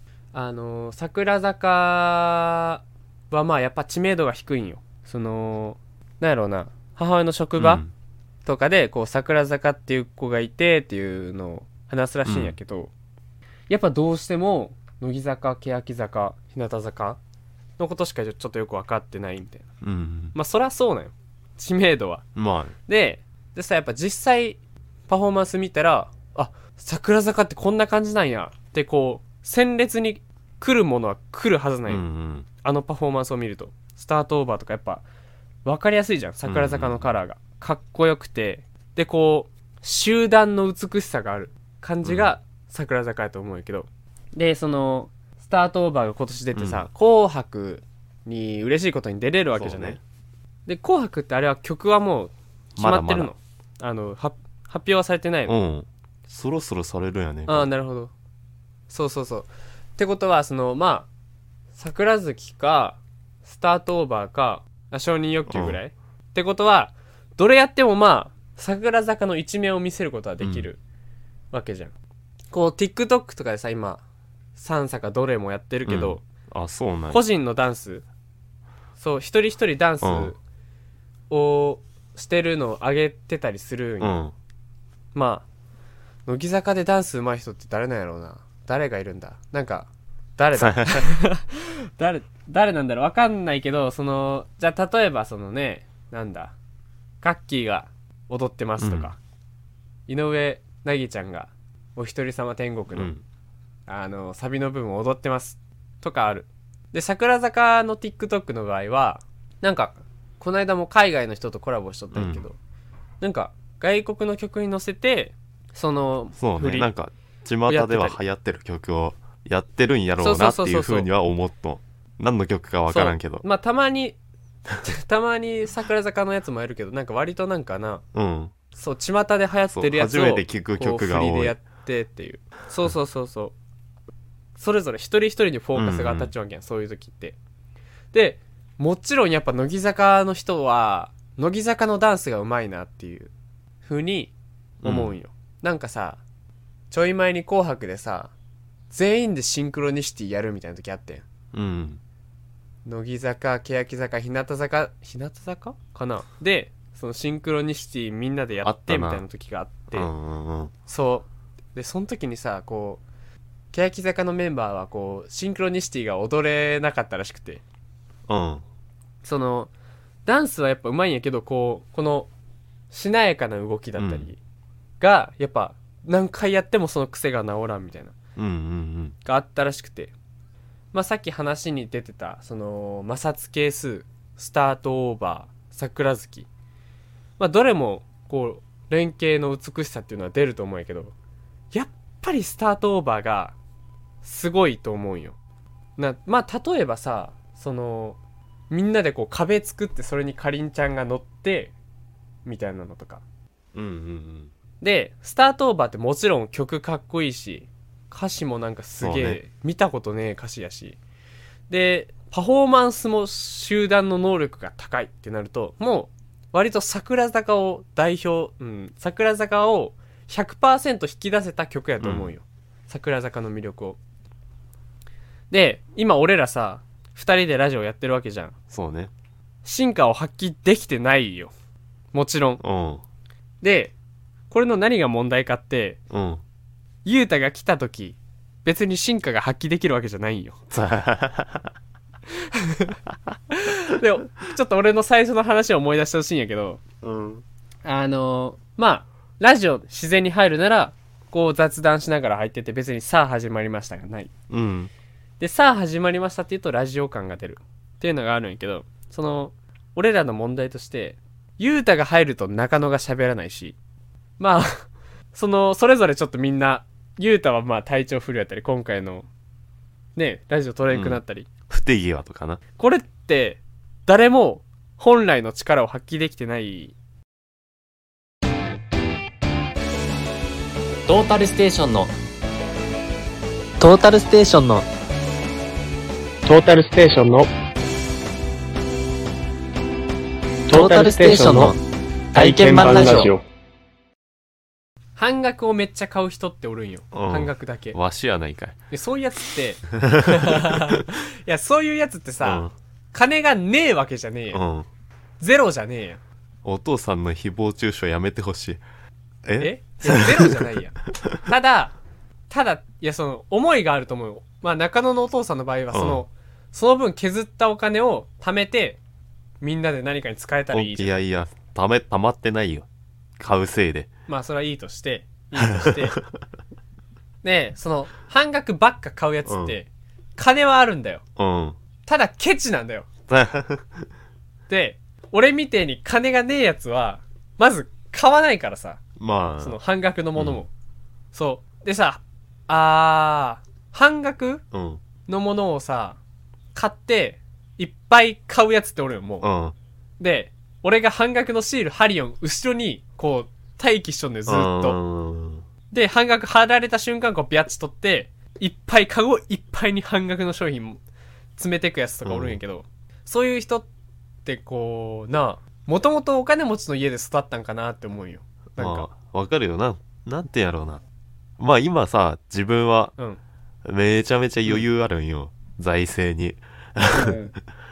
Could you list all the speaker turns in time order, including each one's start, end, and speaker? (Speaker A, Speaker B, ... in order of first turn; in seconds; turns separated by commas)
Speaker A: 0.3-7.8, Speaker B: 7.6-7.9, Speaker A: 8.4-12.9, Speaker B: 12.2-12.6, Speaker A: 13.7-17.2, Speaker A: 17.8-19.6, Speaker B: 19.8-20.3, Speaker A: 20.3-22.2, Speaker B: 22.4-22.7, Speaker A: 22.9-32.0, Speaker B: 31.9-32.5, Speaker A: 32.6-35.0, Speaker A: 35.6-50.0, Speaker B: 36.4-37.1, Speaker B: 42.0-42.3, Speaker B: 46.5-46.9, Speaker B: 49.5-50.0, Speaker A: 50.6-55.5, Speaker B: 52.8-53.3, Speaker B: 55.5-57.7, Speaker A: 57.5-58.1, Speaker A: 58.9-61.1, Speaker A: 61.8-70.8, Speaker B: 65.5-65.8, Speaker B: 70.4-70.7, Speaker A: 71.5-71.9, Speaker A: 72.5-74.0, Speaker A: 74.5-76.2, Speaker B: 75.8-77.2, Speaker A: 77.1-78.0, Speaker A: 79.0-80.4, Speaker B: 80.0-80.3, Speaker A: 81.3-84.2, Speaker B: 84.0-84.3, Speaker A: 85.1-85.4, Speaker A: 86.2-96.5, Speaker B: 90.5-91.1, Speaker A: 97.2-99.2, Speaker B: 98.8-99.1, Speaker A: 100.1-103.1, Speaker B: 102.9-103.2, Speaker A: 103.9-112.6, Speaker B: 112.1-112.4, Speaker A: 113.2-116.9, Speaker B: 116.3-123.4, Speaker A: 117.7-118.2, Speaker A: 120.2-121.1, Speaker A: 122.9-124.2, Speaker A: 124.8-128.0, Speaker B: 128.1-128.5, Speaker A: 128.7-133.5, Speaker B: 129.7-131.6, Speaker A: 134.6-137.3, Speaker B: 135.7-136.3, Speaker A: 138.1-143.3, Speaker A: 143.8-144.3, Speaker B: 144.8-145.2, Speaker A: 144.8-146.2, Speaker A: 146.9-148.3, Speaker A: 148.9-151.2, Speaker B: 151.5-152.0, Speaker A: 152.8-160.1, Speaker B: 158.6-159.2, Speaker B: 159.9-160.7, Speaker A: 160.9-163.0, Speaker A: 163.7-167.6, Speaker B: 168.3-168.6, Speaker A: 169.2-169.7, Speaker A: 170.2-172.3, Speaker A: 172.9-174.4, Speaker B: 174.0-174.3, Speaker A: 175.0-178.1, Speaker B: 178.4-179.2, Speaker A: 179.2-180.1, Speaker A: 180.9-186.5, Speaker A: 187.4-191.1, Speaker A: 191.7-193.5, Speaker A: 194.2-195.3, Speaker A: 196.0-198.2, Speaker A: 198.7-201.7, Speaker A: 202.4-203.2, Speaker B: 203.7-204.5, Speaker A: 204.8-211.0, Speaker B: 209.0-209.4, Speaker A: 211.7-224.0, Speaker B: 222.0-222.3, Speaker A: 225.5-228.6, Speaker B: 228.7-229.1, Speaker A: 229.6-231.5, Speaker A: 232.1-232.6, Speaker B: 232.6-233.0, Speaker A: 233.6-233.9, Speaker A: 234.5-236.0, Speaker B: 236.1-236.4, Speaker A: 237.0-240.6, Speaker B: 240.7-241.7, Speaker A: 242.4-243.0, Speaker A: 243.5-246.8, Speaker B: 247.0-247.4, Speaker A: 247.8-254.3, Speaker B: 254.5-254.9, Speaker A: 255.4-263.8, Speaker A: 264.4-269.3, Speaker A: 270.1-271.5, Speaker B: 270.9-272.6, Speaker A: 272.8-276.9, Speaker C: 281.1-282.1, Speaker C: 283.8-284.9, Speaker D: 286.4-287.5, Speaker D: 290.7-291.7, Speaker C: 290.7-291.8, Speaker C: 292.3-293.3, Speaker D: 292.3-293.4, Speaker A: 295.1-298.0, Speaker B: 297.1-298.8, Speaker A: 298.9-304.6, Speaker B: 299.9-301.0, Speaker B: 302.4-302.7, Speaker B: 304.5-304.9, Speaker A: 305.4-306.2, Speaker B: 306.6-308.8, Speaker B: 309.4-310.7, Speaker A: 309.6-311.9, Speaker A: 312.5-319.0, Speaker B: 315.9-316.2, Speaker A: 319.6-321.1, Speaker B: 320.7-322.9, Speaker B: 323.4-324.1, Speaker A: 324.3-326.2, Speaker B: 325.5-326.4, Speaker A: 327.4-331.2, Speaker B: 329.4-329.8, Speaker B: 331.4-331.8, Speaker A: 332.1-333.1, Speaker B: 333.3-334.1, Speaker A: 334.7-339.0, Speaker B: 339.2-339.8, Speaker A: 339.6-340.7, Speaker B: 340.4-340.6, Speaker A: 341.3-344.6, Speaker B: 344.7-345.0, Speaker A: 345.2-346.2, Speaker A: 346.7-349.4, Speaker B: 349.4-349.7, Speaker A: 350.2-355.0, Speaker B: 354.5-355.6, Speaker A: 355.9-361.0, Speaker A: 361.6-363.9, Speaker B: 362.2-362.6, Speaker A: 364.4-369.1, Speaker B: 368.8-371.0, Speaker B: 371.6-373.1, Speaker B: 373.8-377.4, Speaker A: 377.1-377.5